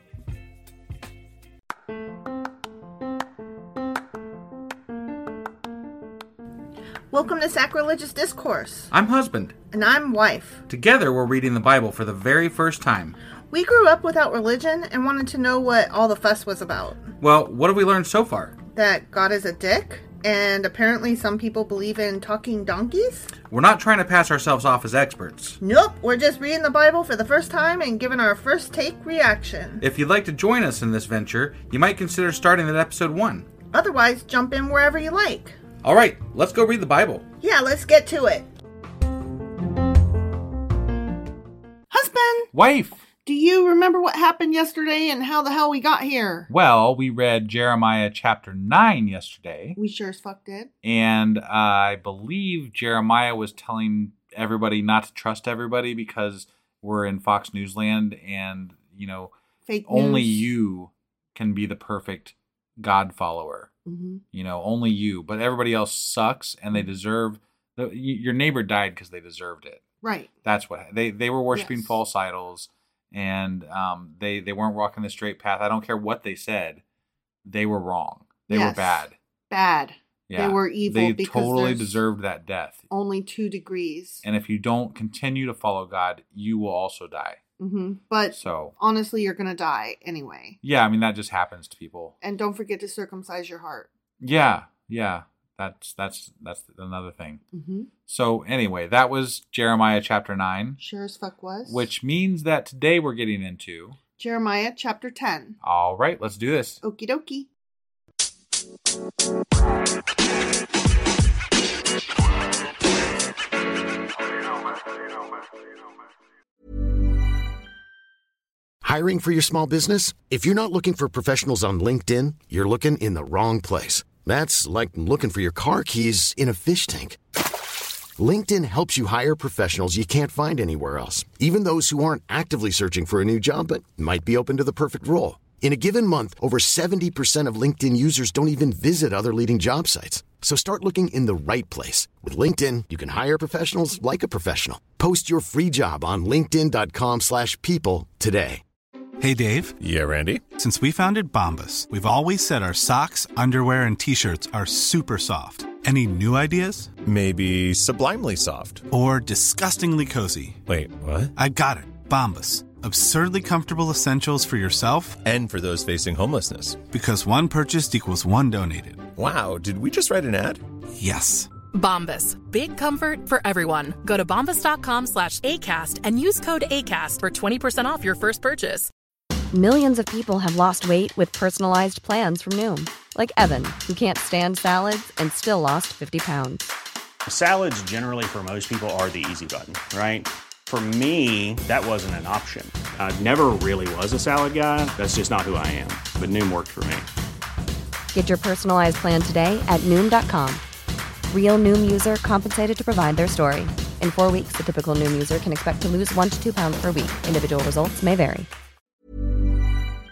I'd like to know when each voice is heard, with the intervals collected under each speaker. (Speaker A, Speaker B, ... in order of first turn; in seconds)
Speaker A: 7.1-8.9, 9.7-10.6, 13.5-17.1, 18.7-23.3, 25.6-29.8, 33.7-35.6, 37.4-38.5, 41.9-42.5, 43.2-46.5, 49.8-50.7, 59.7-60.5, 63.9-64.2, 70.0-70.3, 71.5-71.9, 78.5-81.9, 82.9-84.2, 87.6-90.6, 92.2-93.9, 97.5-97.9, 100.8-101.9, 104.2-105.5, 106.8-107.5
Speaker B: 8.9-9.5, 10.7-13.2, 17.2-18.5, 23.5-25.6, 29.8-33.5, 35.8-37.2, 42.5-43.0, 46.5-49.8, 50.8-59.3, 59.9-63.7, 64.3-69.8, 70.4-76.8, 77.4-79.1, 80.3-82.8, 84.2-87.4, 88.3-88.7, 90.6-92.1, 94.2-97.4, 98.0-100.8, 101.7-104.0, 105.6-106.8
Speaker C: 118.8-127.2, 128.2-148.6
Speaker D: 149.2-149.8, 150.5-156.9, 158.9-160.6, 161.3-165.2, 166.8-169.1, 170.9-171.5
Speaker E: 149.8-150.5, 157.0-158.9, 160.7-161.3, 165.2-166.8, 169.2-170.6
Speaker F: 171.7-178.9
Speaker G: 179.5-186.7, 198.1-200.6, 201.3-208.5
Speaker H: 187.3-197.1